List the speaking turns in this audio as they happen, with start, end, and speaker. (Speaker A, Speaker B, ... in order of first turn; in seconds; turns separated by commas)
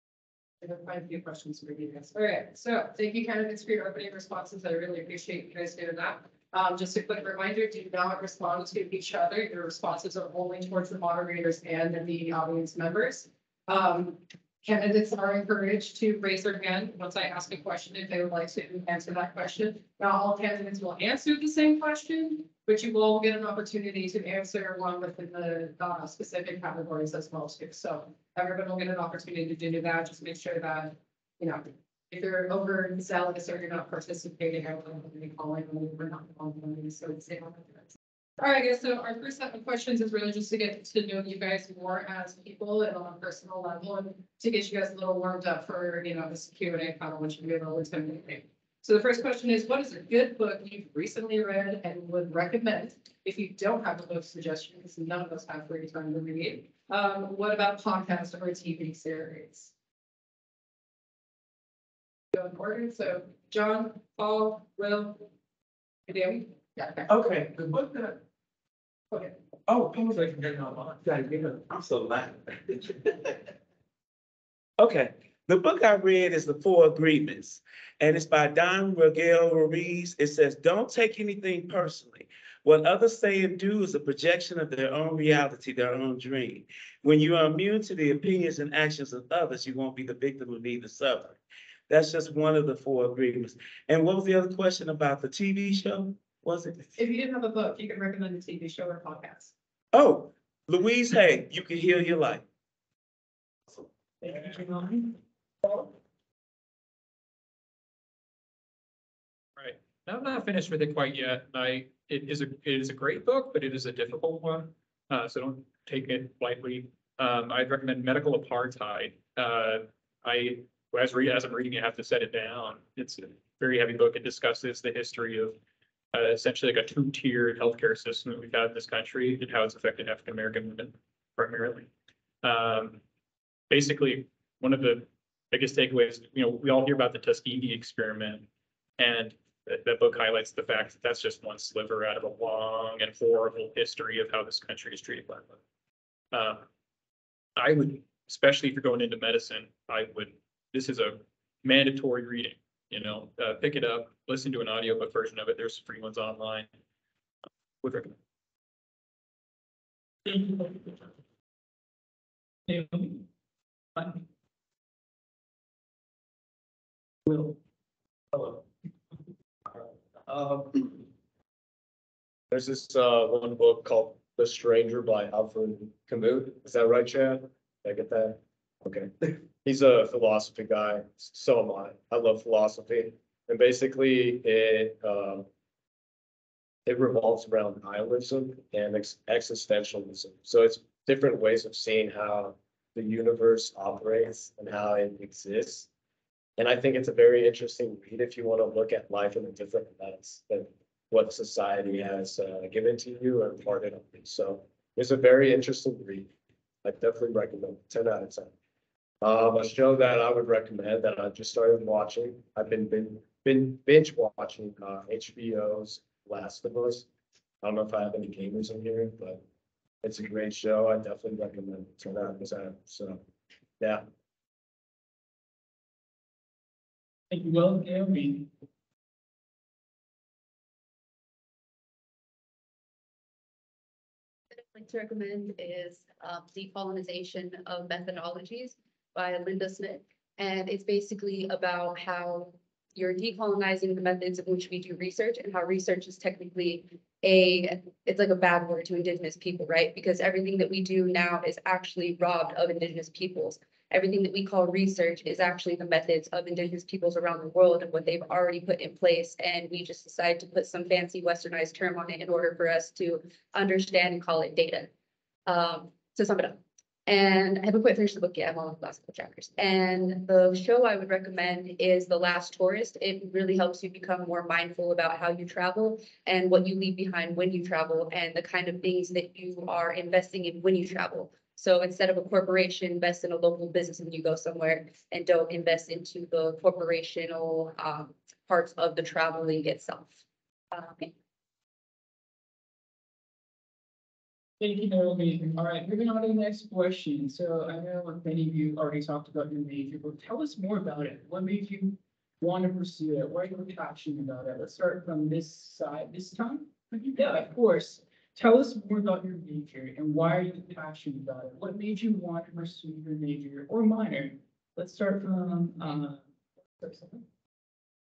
Speaker A: 0.6-59.7, Speaker A: 62.3-65.3, Speaker A: 66.1-67.1, Speaker B: 67.1-68.2, Speaker A: 69.1-69.4, Speaker B: 69.7-73.3, Speaker B: 74.8-91.4, Speaker B: 91.9-96.9, Speaker A: 97.0-99.5, Speaker B: 99.9-102.4, Speaker C: 104.2-105.1, Speaker D: 109.6-125.6, Speaker D: 126.1-131.9, Speaker D: 132.4-133.0, Speaker D: 133.7-145.6, Speaker D: 146.3-146.7, Speaker D: 147.6-156.7, Speaker D: 157.8-158.2, Speaker C: 160.3-161.0, Speaker C: 162.7-163.3, Speaker C: 164.0-164.2, Speaker C: 167.3-167.6, Speaker E: 170.3-170.6, Speaker E: 172.5-185.5, Speaker E: 186.9-195.9, Speaker E: 196.6-206.3, Speaker E: 206.8-208.5, Speaker E: 209.2-217.1, Speaker E: 217.6-219.4, Speaker E: 220.0-223.2, Speaker E: 223.8-224.1, Speaker C: 227.3-228.5, Speaker F: 234.5-264.9, Speaker F: 265.5-290.2, Speaker F: 290.7-291.1, Speaker C: 294.6-316.2, Speaker C: 316.8-317.2